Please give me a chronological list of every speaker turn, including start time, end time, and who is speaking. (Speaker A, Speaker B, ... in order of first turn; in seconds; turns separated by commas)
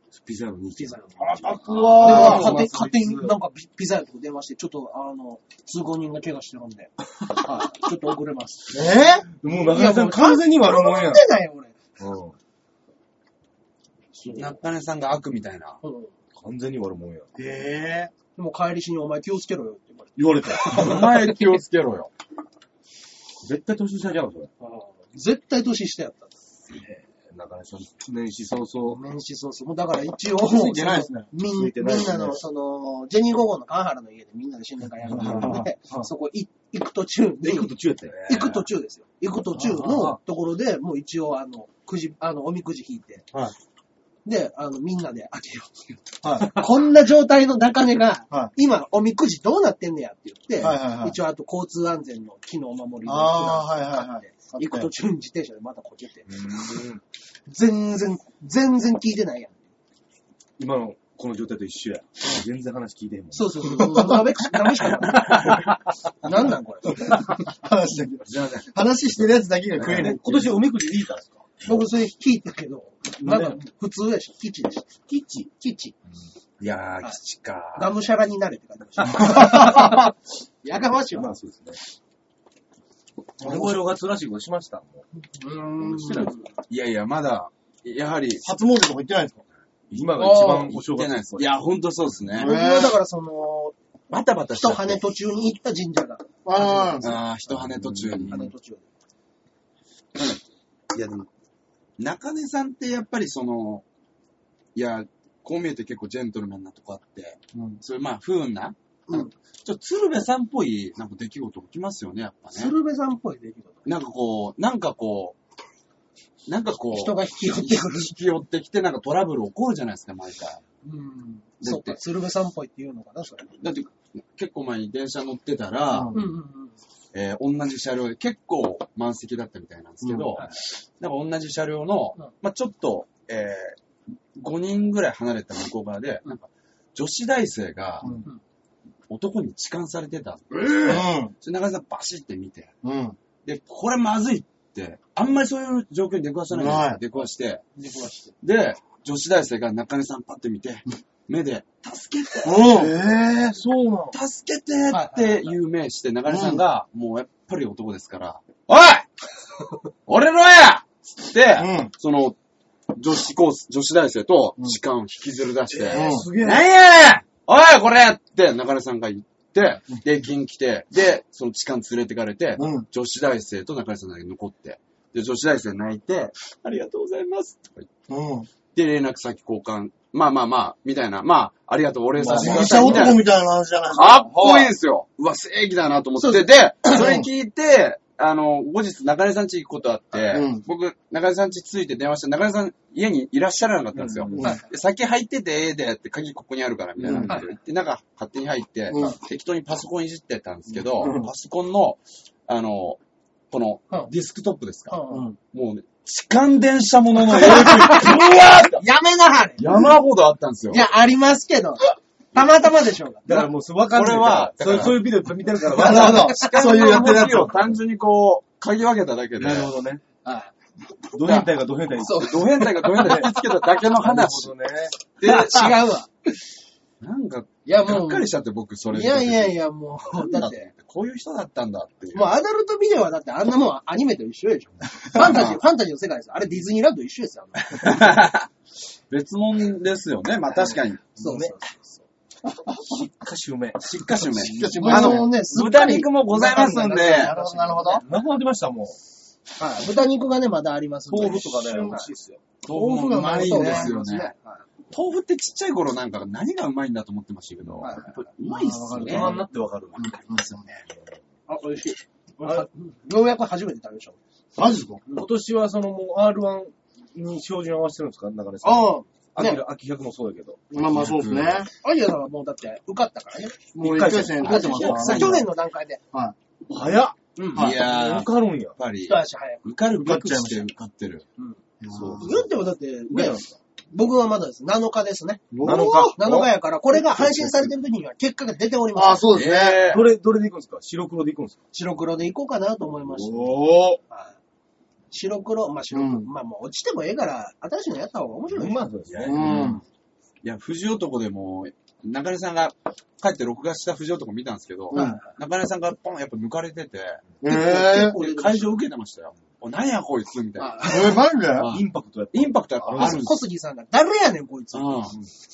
Speaker A: 0.1-3.4, Speaker B: 0.7-8.8, Speaker C: 1.4-2.5, Speaker C: 8.7-9.3, Speaker A: 9.4-11.3, Speaker B: 9.7-11.7, Speaker A: 12.0-12.3, Speaker B: 14.1-14.5, Speaker D: 14.3-15.8, Speaker B: 15.8-16.1, Speaker A: 16.3-17.3, Speaker C: 17.4-18.1, Speaker B: 18.4-20.1, Speaker A: 20.1-21.2, Speaker D: 20.6-22.1, Speaker A: 23.4-24.5, Speaker B: 24.6-26.3, Speaker A: 26.7-29.0, Speaker B: 28.9-37.7, Speaker C: 30.4-31.3, Speaker A: 31.4-32.4, Speaker C: 35.1-35.7, Speaker A: 35.1-36.1, Speaker A: 37.4-38.6, Speaker B: 38.2-43.2, Speaker A: 39.6-40.2, Speaker B: 44.2-56.3, Speaker C: 46.2-46.6, Speaker C: 50.6-51.1, Speaker C: 53.0-54.9, Speaker A: 56.3-57.0, Speaker B: 57.5-59.7, Speaker A: 60.6-63.8, Speaker B: 63.3-65.7, Speaker C: 64.0-64.2, Speaker D: 65.1-65.7, Speaker B: 66.2-67.3, Speaker C: 67.0-70.6, Speaker D: 68.3-68.7, Speaker A: 69.8-71.5, Speaker B: 71.6-75.9, Speaker A: 73.2-73.6, Speaker A: 75.1-75.5, Speaker D: 76.6-77.9, Speaker B: 77.7-81.3, Speaker A: 81.1-81.8, Speaker C: 83.4-83.8, Speaker A: 83.4-85.0, Speaker B: 85.2-86.5, Speaker A: 85.8-86.4, Speaker D: 86.7-88.4, Speaker C: 88.4-89.4, Speaker A: 89.9-91.6, Speaker B: 90.2-90.8, Speaker D: 90.4-92.5, Speaker C: 92.3-92.9, Speaker B: 92.3-93.7, Speaker D: 94.1-95.0, Speaker B: 94.5-97.2, Speaker C: 96.4-97.1, Speaker D: 97.0-98.5, Speaker A: 97.5-98.4, Speaker B: 98.3-98.9, Speaker D: 100.9-101.3, Speaker D: 102.0-103.8, Speaker D: 104.7-112.7, Speaker C: 107.5-107.8, Speaker B: 112.5-113.8, Speaker D: 113.8-115.3, Speaker D: 116.5-120.6, Speaker B: 116.9-118.1, Speaker B: 120.8-123.5, Speaker D: 121.6-122.0, Speaker D: 123.6-126.1, Speaker C: 125.9-126.2, Speaker B: 126.1-126.8, Speaker D: 127.1-133.8, Speaker C: 130.0-130.3, Speaker D: 134.3-138.1, Speaker D: 139.1-142.7, Speaker C: 140.8-141.3, Speaker C: 142.8-143.2, Speaker D: 143.4-147.6, Speaker C: 146.5-147.0, Speaker B: 147.8-148.3, Speaker D: 148.4-152.7, Speaker C: 152.4-153.6, Speaker A: 152.7-154.2, Speaker D: 154.1-159.1, Speaker B: 154.9-155.5, Speaker C: 156.3-156.6, Speaker D: 160.1-162.3, Speaker C: 161.6-161.9, Speaker D: 162.9-177.9, Speaker A: 165.7-166.7, Speaker C: 165.9-166.3, Speaker C: 172.6-172.9, Speaker C: 178.1-178.5, Speaker D: 178.7-183.2, Speaker A: 182.2-183.2, Speaker C: 182.2-184.4, Speaker D: 183.9-203.0, Speaker B: 186.2-187.0, Speaker C: 186.9-187.2, Speaker C: 190.3-190.6, Speaker A: 193.9-194.5, Speaker C: 194.3-194.6, Speaker B: 194.4-194.7, Speaker C: 197.0-197.3, Speaker B: 197.1-197.5, Speaker C: 198.9-199.2, Speaker C: 201.0-201.3, Speaker D: 203.5-204.9, Speaker B: 204.9-205.3, Speaker C: 205.1-205.4, Speaker D: 205.5-208.8, Speaker B: 207.3-208.2, Speaker B: 208.8-209.6, Speaker D: 209.6-210.8, Speaker B: 210.7-213.3, Speaker A: 213.2-217.5, Speaker D: 213.9-215.1, Speaker C: 215.7-217.7, Speaker B: 215.9-216.8, Speaker D: 215.9-219.7, Speaker A: 219.4-220.0, Speaker B: 220.2-220.5, Speaker A: 221.1-222.4, Speaker D: 221.2-221.5, Speaker B: 222.0-223.4, Speaker D: 222.1-224.5, Speaker A: 222.9-223.3, Speaker A: 223.9-224.9, Speaker D: 225.1-225.8, Speaker B: 225.2-226.1, Speaker D: 227.0-229.6, Speaker B: 227.6-228.3, Speaker B: 228.9-230.7, Speaker D: 230.1-232.4, Speaker B: 232.1-238.1, Speaker D: 235.1-235.6, Speaker D: 237.7-238.5, Speaker D: 239.1-241.0, Speaker B: 240.5-242.0, Speaker A: 241.2-241.6, Speaker A: 242.7-244.8, Speaker D: 243.8-247.3, Speaker C: 244.4-245.3, Speaker B: 244.7-248.1, Speaker C: 247.1-248.0, Speaker A: 247.9-249.0, Speaker B: 249.6-252.1, Speaker A: 251.1-252.4, Speaker C: 251.7-252.0, Speaker D: 252.6-254.3, Speaker C: 252.7-253.9, Speaker B: 253.3-254.7, Speaker D: 254.9-259.4, Speaker B: 257.8-258.2, Speaker C: 258.4-259.4, Speaker A: 258.9-260.2, Speaker C: 259.9-260.6, Speaker B: 261.5-264.2, Speaker C: 264.6-265.0, Speaker A: 265.1-270.6, Speaker B: 268.6-269.6, Speaker C: 270.7-271.7, Speaker D: 270.7-271.7, Speaker B: 271.8-273.6, Speaker C: 273.7-275.4, Speaker A: 273.8-275.3, Speaker B: 274.4-276.0, Speaker D: 274.9-275.4, Speaker A: 276.7-278.8, Speaker B: 277.4-277.7, Speaker D: 277.5-281.2, Speaker C: 277.6-277.8, Speaker B: 279.0-279.6, Speaker C: 280.0-280.7, Speaker C: 281.8-282.4, Speaker A: 281.9-282.4, Speaker B: 282.2-285.5, Speaker A: 283.1-283.5, Speaker C: 285.5-286.4, Speaker A: 285.6-286.5, Speaker B: 286.1-289.3, Speaker A: 287.2-287.5, Speaker C: 288.9-289.8, Speaker D: 289.3-290.1, Speaker A: 289.9-291.6, Speaker B: 291.7-293.6, Speaker C: 293.3-294.0, Speaker B: 295.1-298.8, Speaker C: 295.9-296.3, Speaker A: 298.5-299.8, Speaker C: 299.2-299.8, Speaker D: 299.3-299.8, Speaker D: 300.4-307.2, Speaker C: 304.9-305.2, Speaker B: 304.9-305.3, Speaker C: 307.4-308.2, Speaker B: 307.4-308.8, Speaker D: 307.9-313.4, Speaker B: 310.6-311.2, Speaker C: 310.8-311.7, Speaker A: 311.6-313.2, Speaker B: 313.0-315.1, Speaker D: 314.7-315.1